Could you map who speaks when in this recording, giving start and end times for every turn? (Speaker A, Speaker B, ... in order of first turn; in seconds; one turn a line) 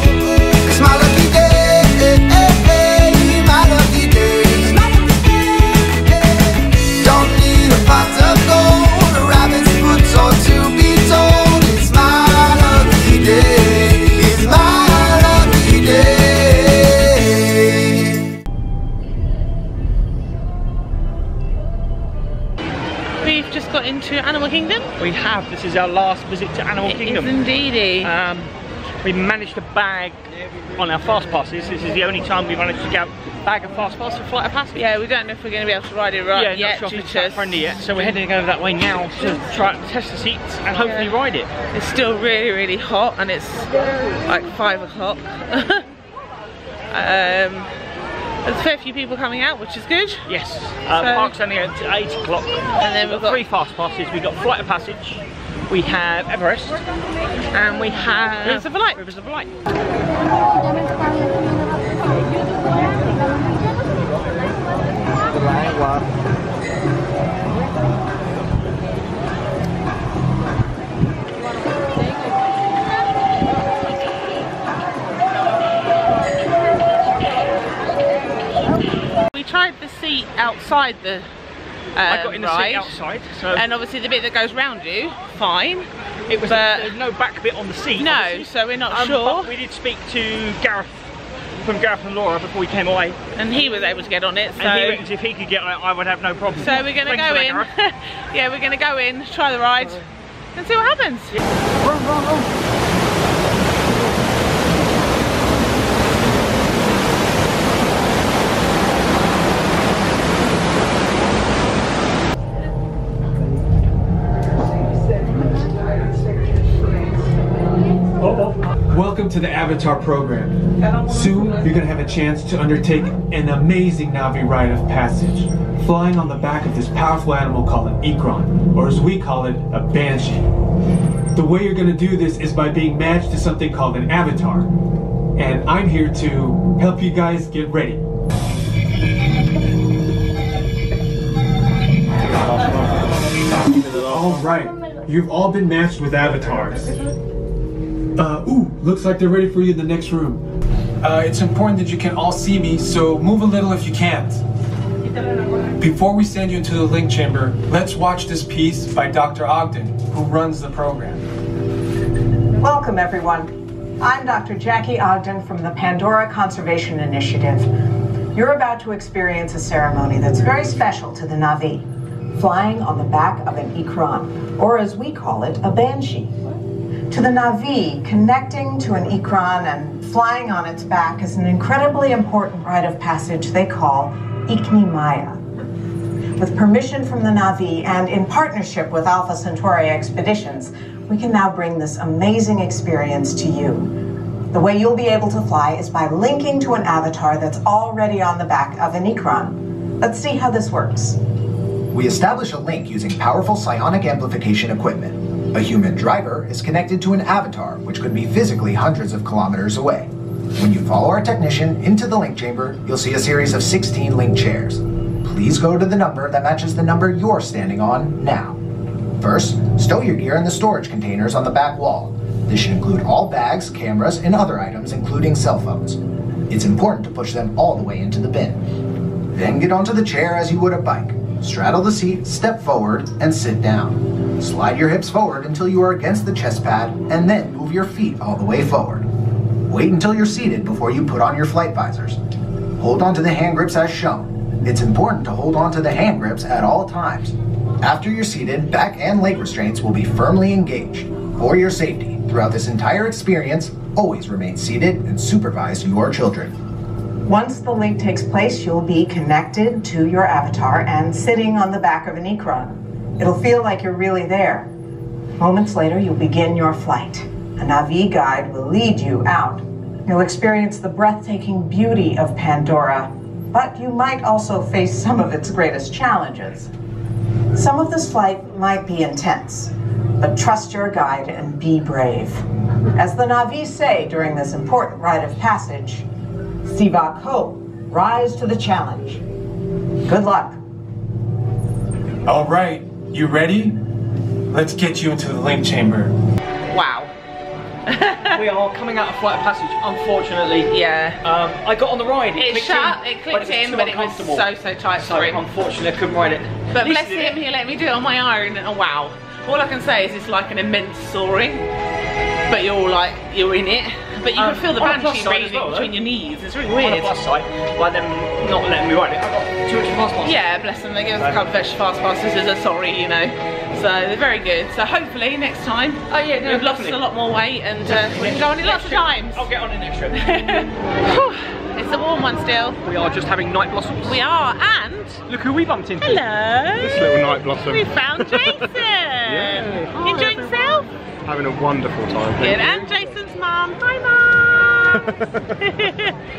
Speaker A: 0.6-4.8
Speaker A: 5.5-18.2
Speaker B: 23.2-24.9
Speaker C: 25.0-27.4
Speaker B: 26.9-28.1
Speaker C: 28.0-30.2
Speaker C: 30.8-34.8
Speaker B: 34.7-37.8
Speaker C: 36.3-41.5
Speaker B: 40.8-41.1
Speaker B: 41.7-43.7
Speaker B: 44.2-45.9
Speaker B: 46.9-47.7
Speaker B: 48.4-50.3
Speaker C: 50.3-56.8
Speaker B: 50.9-51.4
Speaker B: 52.8-53.4
Speaker B: 57.5-59.0
Speaker C: 58.4-59.5
Speaker B: 79.3-81.3
Speaker B: 82.0-82.9
Speaker C: 82.1-83.6
Speaker B: 83.5-85.9
Speaker C: 86.3-93.2
Speaker B: 86.4-86.9
Speaker B: 88.0-89.5
Speaker B: 93.4-95.0
Speaker C: 94.6-97.7
Speaker B: 96.6-101.4
Speaker C: 101.8-102.5
Speaker C: 118.2-118.6
Speaker D: 118.9-130.4
Speaker D: 131.3-134.7
Speaker D: 135.4-138.0
Speaker D: 143.9-147.0
Speaker D: 148.2-150.4
Speaker D: 151.0-154.4
Speaker D: 155.8-161.2
Speaker E: 162.6-167.7
Speaker E: 168.3-176.6
Speaker E: 177.1-185.4
Speaker E: 186.4-193.9
Speaker E: 194.5-201.2
Speaker F: 201.9-218.6
Speaker F: 219.2-226.0
Speaker F: 226.5-228.6
Speaker F: 229.3-239.1
Speaker F: 239.7-242.2
Speaker F: 242.8-256.5
Speaker E: 257.3-264.7
Speaker E: 265.4-276.7
Speaker E: 277.5-282.4
Speaker E: 282.9-286.1
Speaker E: 286.6-289.2
Speaker E: 290.1-290.6
Speaker D: 292.3-293.8
Speaker D: 294.5-296.1
Speaker B: 296.7-297.1
Speaker B: 297.9-298.4
Speaker C: 298.3-300.7
Speaker B: 300.7-301.2
Speaker C: 301.2-307.4
Speaker B: 302.4-305.4
Speaker B: 306.7-311.7
Speaker B: 312.5-317.1
Speaker C: 314.4-315.9
Speaker C: 316.7-320.5
Speaker B: 320.2-329.5
Speaker C: 326.1-327.0
Speaker C: 327.8-330.3
Speaker B: 330.1-332.8
Speaker C: 332.8-334.2
Speaker B: 334.0-335.2
Speaker C: 335.3-336.2
Speaker B: 336.0-340.9
Speaker A: 336.8-337.9
Speaker A: 339.3-339.8
Speaker C: 339.9-340.8
Speaker A: 341.3-342.8
Speaker B: 342.4-346.2